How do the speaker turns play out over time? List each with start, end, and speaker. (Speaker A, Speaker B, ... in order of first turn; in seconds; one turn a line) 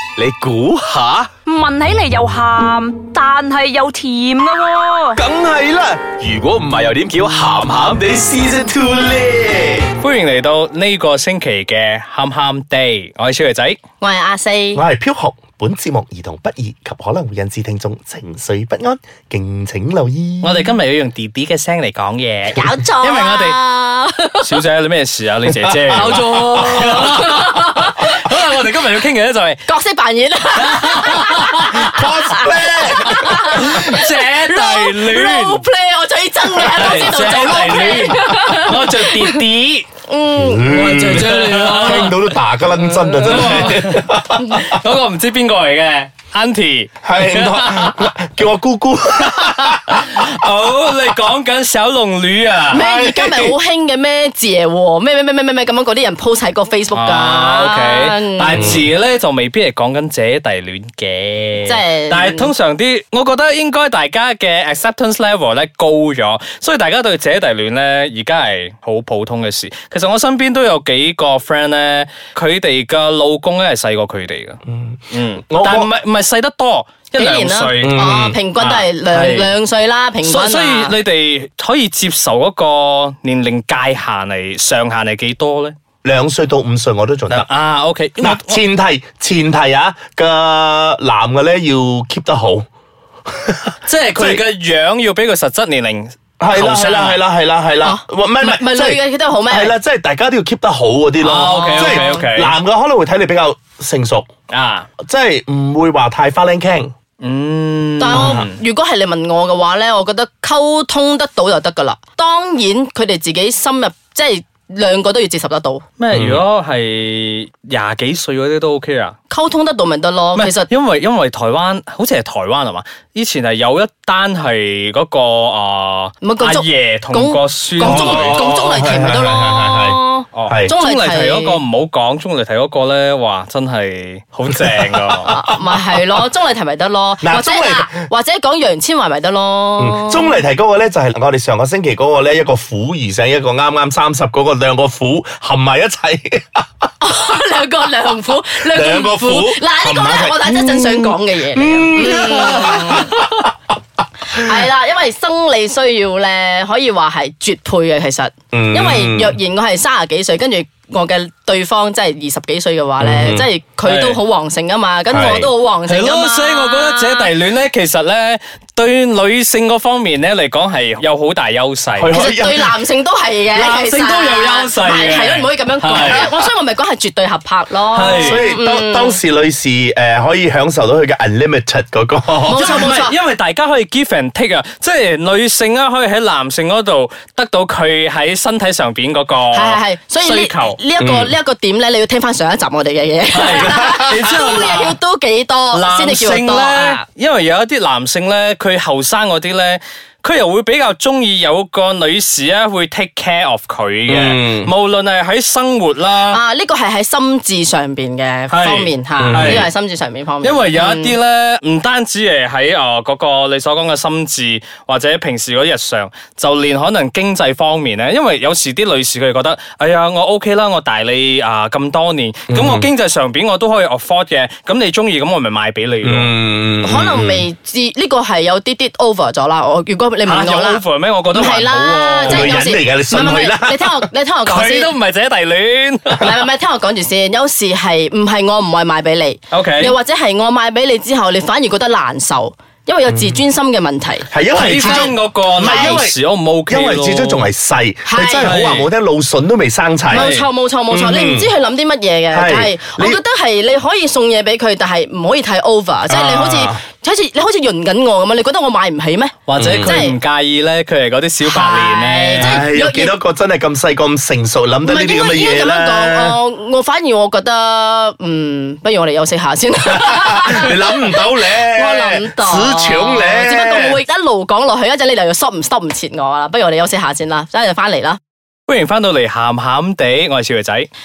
Speaker A: 0.2-1.3
Speaker B: 1.7-5.1
Speaker A: 4.7-9.8
Speaker C: 5.2-6.2
Speaker C: 8.4-9.5
Speaker D: 10.0-13.8
Speaker E: 14.0-14.8
Speaker C: 14.7-20.7
Speaker D: 20.4-23.6
Speaker E: 22.5-24.6
Speaker D: 24.4-29.6
Speaker C: 25.7-26.9
Speaker E: 25.9-27.9
Speaker E: 29.6-39.4
Speaker D: 30.6-31.9
Speaker C: 31.6-33.7
Speaker D: 32.8-35.6
Speaker D: 36.5-39.9
Speaker E: 40.0-40.9
Speaker C: 40.4-44.7
Speaker A: 40.7-42.0
Speaker D: 40.7-48.1
Speaker C: 47.0-50.2
Speaker D: 49.2-52.8
Speaker C: 52.7-53.5
Speaker E: 52.7-58.7
Speaker D: 56.9-74.6
Speaker C: 58.5-58.8
Speaker E: 61.6-62.5
Speaker C: 74.7-75.9
Speaker D: 75.1-79.5
Speaker E: 77.1-80.9
Speaker C: 77.8-78.4
Speaker D: 80.2-85.8
Speaker C: 86.0-87.5
Speaker D: 87.3-88.6
Speaker C: 88.2-92.6
Speaker C: 93.3-94.5
Speaker D: 93.8-97.2
Speaker C: 96.4-104.3
Speaker E: 97.8-99.7
Speaker D: 101.2-102.5
Speaker E: 101.4-102.2
Speaker D: 104.5-104.9
Speaker C: 105.0-106.9
Speaker D: 107.2-108.5
Speaker E: 108.0-115.8
Speaker C: 108.1-108.5
Speaker D: 116.0-119.2
Speaker C: 116.1-116.4
Speaker E: 119.3-120.7
Speaker D: 120.3-128.5
Speaker E: 126.2-131.6
Speaker C: 127.8-130.7
Speaker D: 130.3-135.3
Speaker C: 134.6-135.7
Speaker E: 135.2-140.4
Speaker C: 137.2-137.9
Speaker C: 139.8-146.6
Speaker E: 147.0-153.1
Speaker C: 148.6-153.5
Speaker D: 152.5-152.8
Speaker E: 154.3-167.3
Speaker C: 158.5-159.4
Speaker C: 163.0-163.5
Speaker D: 163.8-164.2
Speaker C: 165.1-165.5
Speaker D: 165.9-172.2
Speaker C: 172.0-172.8
Speaker E: 172.1-179.2
Speaker D: 173.5-176.3
Speaker D: 177.9-178.5
Speaker C: 178.0-182.9
Speaker E: 182.4-183.2
Speaker D: 182.5-190.8
Speaker E: 189.5-197.0
Speaker C: 191.0-191.3
Speaker D: 193.3-195.0
Speaker C: 193.7-194.2
Speaker D: 195.7-206.4
Speaker C: 204.1-204.7
Speaker E: 206.3-211.2
Speaker D: 208.5-209.7
Speaker C: 209.2-209.7
Speaker D: 210.4-226.3
Speaker C: 222.5-222.9
Speaker C: 226.0-227.4
Speaker E: 226.8-234.9
Speaker D: 230.2-232.6
Speaker C: 232.2-234.1
Speaker D: 234.4-236.4
Speaker E: 236.2-246.0
Speaker D: 239.5-239.9
Speaker C: 243.1-243.4
Speaker C: 244.3-251.5
Speaker D: 244.5-247.5
Speaker E: 248.1-248.6
Speaker D: 248.4-248.9
Speaker E: 250.1-260.1
Speaker D: 250.1-250.4
Speaker C: 252.3-253.2
Speaker C: 256.1-256.8
Speaker D: 259.5-262.6
Speaker C: 259.6-259.9
Speaker E: 261.4-263.1
Speaker C: 262.4-266.4
Speaker E: 264.8-278.2
Speaker C: 269.9-274.0
Speaker D: 278.7-280.9